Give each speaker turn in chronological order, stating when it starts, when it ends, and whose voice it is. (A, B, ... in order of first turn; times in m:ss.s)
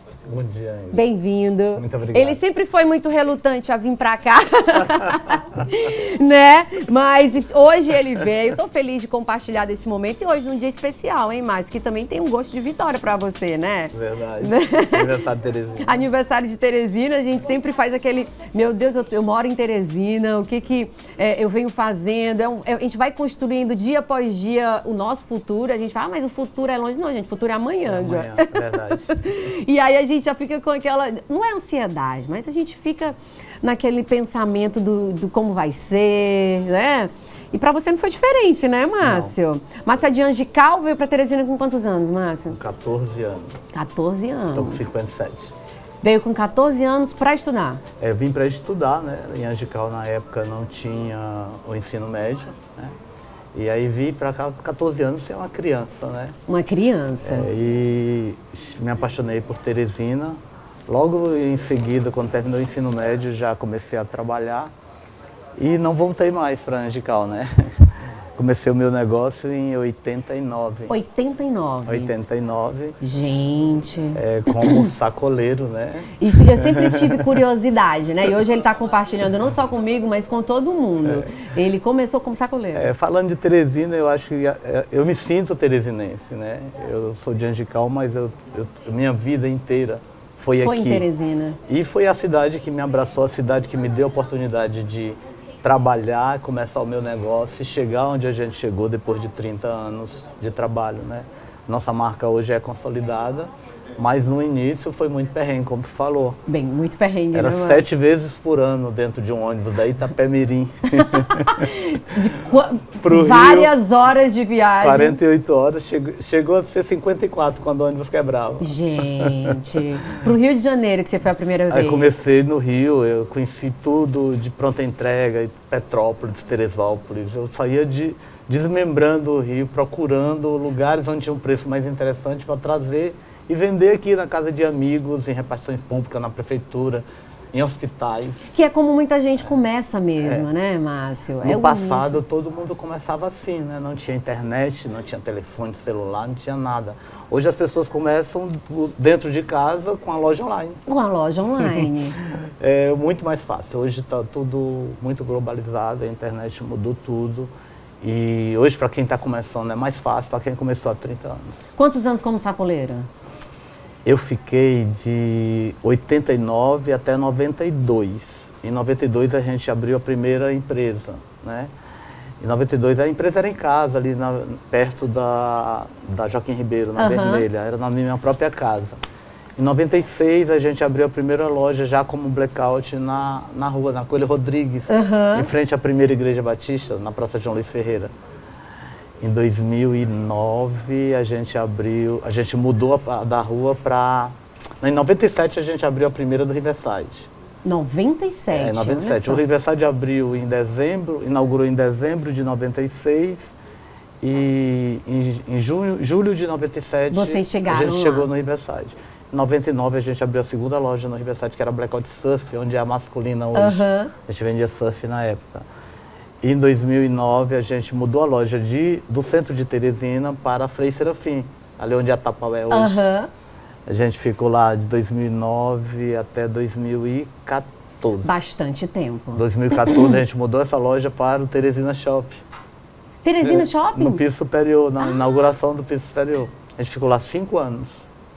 0:00.2-0:01.0 A
0:00.9-0:15.2 B
0:01.8-0:02.4 A
0:13.9-0:16.0 A
0:15.8-0:42.6 B
0:27.8-0:29.5 A
0:39.0-0:39.3 A
0:42.5-0:43.6 A
0:43.7-0:44.8 B
0:44.5-0:45.5 A
0:46.0-0:47.8 B
0:48.0-0:52.9 A
0:53.5-0:56.4 A
0:56.5-0:57.5 B
0:57.2-1:04.7 A
1:05.6-1:07.7 A
1:08.4-1:10.9 A
1:10.9-1:12.1 B
1:11.8-1:13.0 A
1:13.0-1:14.9 B
1:14.1-1:17.4 A
1:16.2-1:22.9 B
1:21.0-1:21.4 A
1:22.7-1:31.0 A
1:30.6-1:31.6 B
1:31.7-1:46.4 A
1:46.5-1:47.8 B
1:47.3-1:51.7 A
1:51.0-1:55.2 B
1:53.0-1:53.7 A
1:54.8-2:00.2 A
1:58.6-2:02.1 B
2:01.7-2:18.5 A
2:18.5-2:22.2 B
2:21.4-2:30.8 A
2:30.9-2:32.2 B
2:32.6-2:37.5 A
2:38.0-2:41.6 A
2:41.8-2:43.1 B
2:44.0-2:51.7 A
2:52.4-2:59.0 A
2:57.0-2:57.4 B
2:59.6-3:08.1 A
3:04.9-3:05.5 B
3:09.2-3:17.3 A
3:17.6-3:19.4 B
3:18.5-3:23.5 A
3:24.2-3:35.6 A
3:27.1-3:28.3 B
3:33.5-3:34.1 B
3:36.4-3:43.0 A
3:42.7-3:43.3 B
3:43.9-3:48.4 A
3:48.2-3:50.2 B
3:49.3-3:52.4 A
3:53.2-3:54.2 B
3:53.4-3:58.0 A
3:55.0-3:55.2 B